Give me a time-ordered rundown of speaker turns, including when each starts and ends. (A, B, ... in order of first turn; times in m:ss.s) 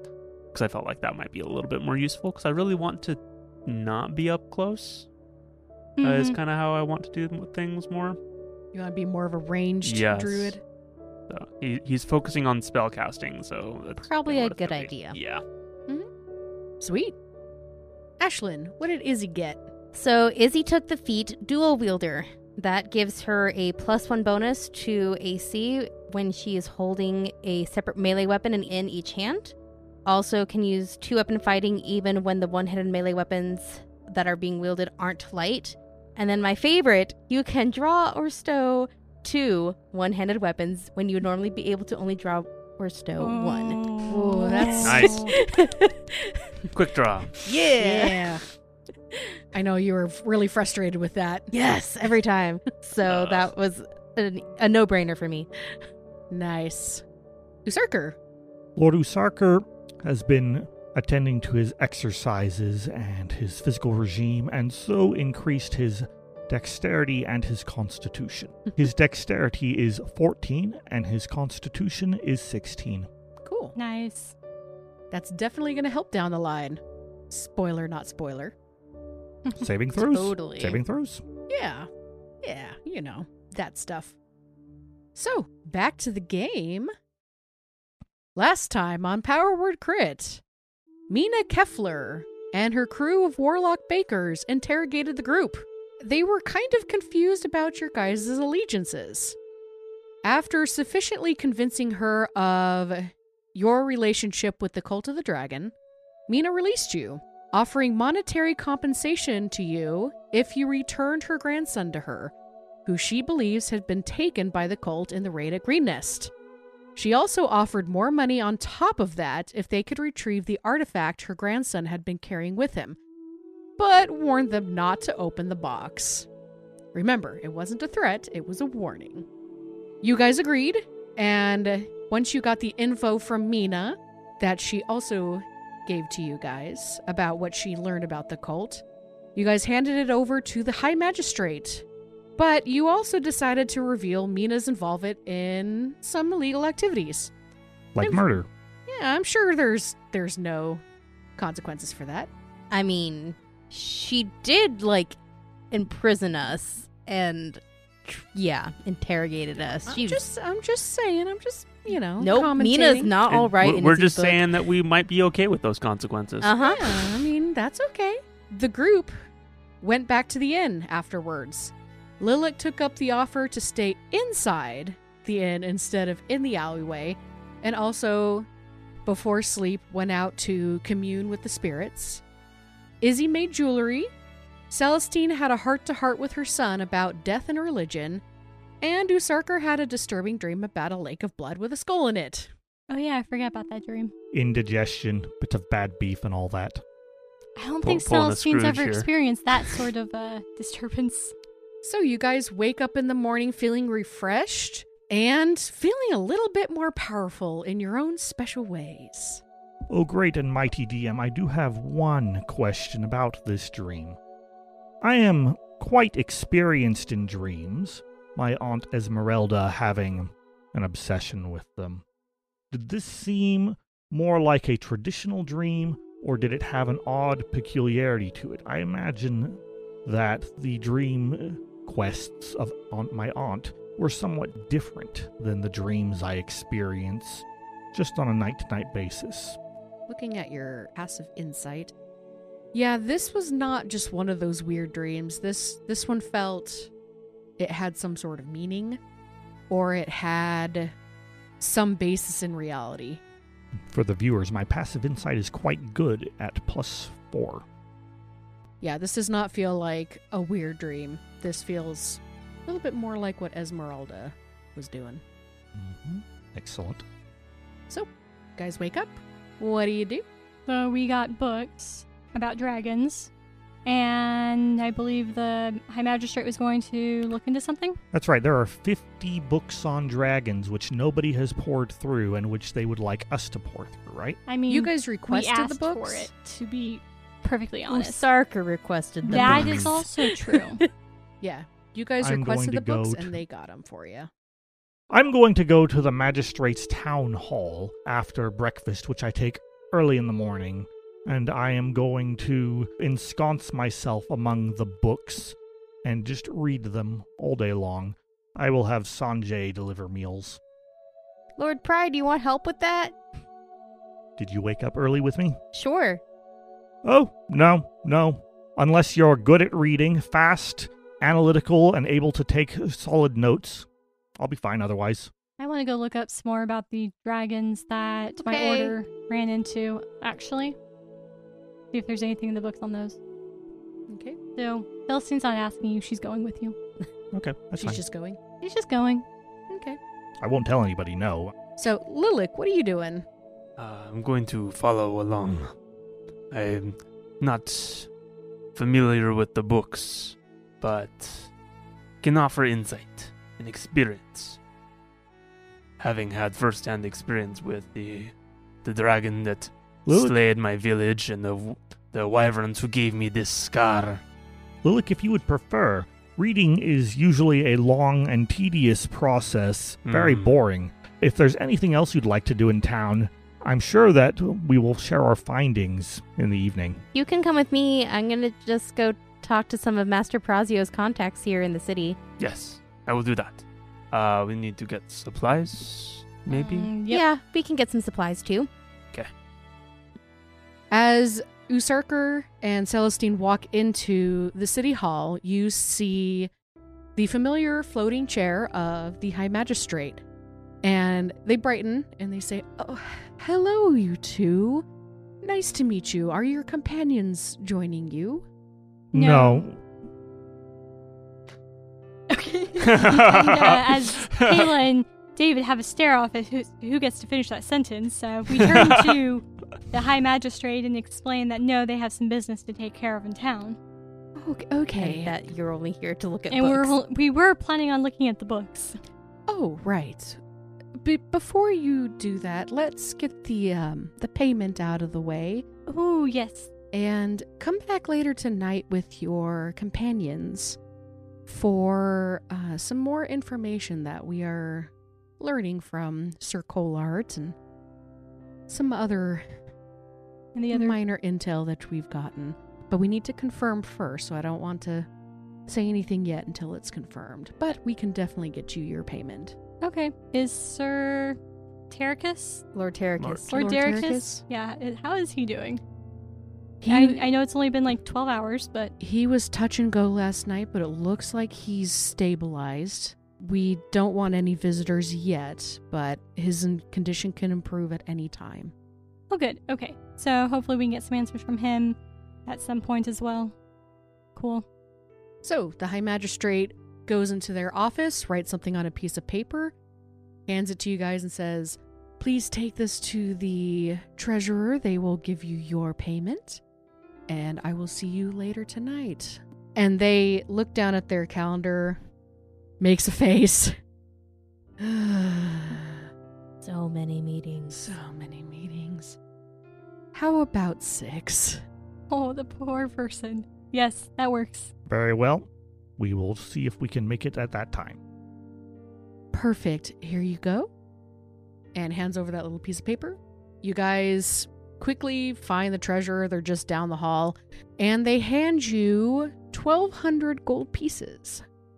0:00.5-0:05.1 A
0:06.0-0:06.4 B
0:06.0-0:08.2 A
0:08.7-0:10.6 C
0:09.8-0:10.6 A
0:11.3-0:15.4 A
0:14.0-0:15.2 D
0:16.8-0:17.2 C
0:18.2-0:19.6 C
0:19.9-0:46.5 D
0:43.2-0:45.4 B
0:44.1-0:45.2 C
0:44.8-0:45.2 A
0:46.7-0:47.3 A
0:47.4-0:48.4 D
0:47.7-0:48.4 C
0:49.5-0:51.5 C
0:51.5-0:55.5 D
0:53.0-0:53.5 A
0:56.3-0:57.0 C
0:57.6-0:58.2 C
0:58.8-1:13.1 E
1:13.4-1:13.8 C
1:13.8-1:14.4 B
1:15.1-1:18.5 C
1:19.6-1:21.2 E
1:20.0-1:20.8 D
1:21.5-1:21.9 C
1:22.4-1:24.2 C
1:25.2-1:26.9 C
1:28.4-1:30.4 C
1:31.1-1:39.4 C
1:40.2-1:45.7 C
1:46.3-1:52.3 C
1:52.9-1:56.3 C
1:57.0-2:03.0 C
2:03.8-2:06.3 C
2:06.9-2:09.3 C
2:10.0-2:18.8 C
2:19.4-2:21.8 C
2:22.4-2:27.3 C
2:28.0-2:28.5 E
2:28.0-2:30.8 C
2:31.4-2:32.3 C
2:32.7-2:35.2 D
2:35.7-2:40.2 D
2:39.8-2:43.1 C
2:42.2-2:44.4 D
2:43.3-2:46.5 A
2:46.4-2:47.2 D
2:46.6-2:49.2 C
2:49.8-2:58.5 C
2:59.1-3:02.2 C
3:03.0-3:04.1 C
3:04.7-3:08.2 C
3:08.8-3:12.5 C
3:12.9-3:14.1 B
3:14.3-3:16.8 E
3:17.6-3:21.4 B
3:17.8-3:19.1 A
3:21.8-3:29.4 C
3:29.9-3:34.2 E
3:35.0-3:42.0 E
3:42.7-3:59.6 E
4:00.1-4:01.9 C
4:02.7-4:06.9 C
4:07.6-4:09.0 C
4:09.7-4:10.9 C
4:11.6-4:13.2 C
4:13.8-4:17.7 E
4:18.8-4:25.2 C
4:25.7-4:27.0 E
4:27.9-4:30.2 C
4:30.7-4:33.3 B
4:33.8-4:38.0 B
4:38.1-4:44.4 E
4:44.5-4:48.3 B
4:44.7-4:46.3 C
4:47.9-4:50.9 D
4:49.2-4:50.8 B
4:49.3-4:50.1 E
4:51.4-4:54.3 C
4:52.2-4:53.4 E
4:55.1-5:10.6 E
5:11.6-5:13.2 D
5:14.4-5:15.6 E
5:15.7-5:16.2 D
5:17.0-5:25.3 E
5:25.6-5:30.8 B
5:28.4-5:29.0 D
5:31.9-5:33.2 B
5:34.1-5:34.4 C
5:34.6-5:36.8 B
5:37.3-5:38.0 E
5:37.8-5:38.4 C
5:38.6-5:39.3 B
5:39.7-5:40.0 C
5:40.4-5:41.5 E
5:41.8-5:43.2 C
5:43.8-5:45.7 A
5:46.5-5:48.1 A
5:48.8-5:51.5 A
5:52.2-5:54.6 A
5:56.0-6:04.2 A
6:00.1-6:00.4 E
6:04.8-6:17.0 E
6:10.1-6:10.5 A
6:17.1-6:22.2 D
6:22.4-6:26.9 A
6:26.5-6:27.2 B
6:27.1-6:28.7 D
6:30.9-6:36.5 C
6:37.2-6:40.2 C
6:40.8-6:44.8 C
6:45.4-6:48.5 C
6:49.1-6:49.8 E
6:49.1-6:49.7 B
6:52.3-7:03.8 B
6:52.8-6:54.8 A
6:58.6-6:59.2 A
7:04.4-7:05.3 C
7:05.0-7:06.9 D
7:06.5-7:09.0 B
7:09.5-7:10.4 C
7:11.0-7:15.6 C
7:15.9-7:16.7 B
7:16.9-7:20.8 C
7:21.5-7:27.6 C
7:28.7-7:29.5 C
7:30.5-7:31.0 B
7:30.7-7:35.1 C
7:35.7-7:39.6 C
7:39.8-7:41.4 B
7:41.9-7:42.7 B
7:42.7-7:44.2 D
7:43.2-7:43.5 A
7:43.5-7:45.8 B
7:43.5-7:44.4 C
7:46.8-7:47.2 C
7:46.9-7:48.9 B
7:49.0-7:58.7 C
7:59.3-8:03.6 B
8:04.4-8:04.6 B
8:05.4-8:09.7 C
8:10.5-8:16.6 C
8:17.3-8:22.0 C
8:22.8-8:23.8 C
8:24.8-8:26.1 C
8:26.6-8:27.9 D
8:27.7-8:29.2 C
8:30.1-8:31.6 C
8:32.1-8:34.7 B
8:34.9-8:38.0 E
8:39.3-8:40.7 C
8:41.8-8:51.4 C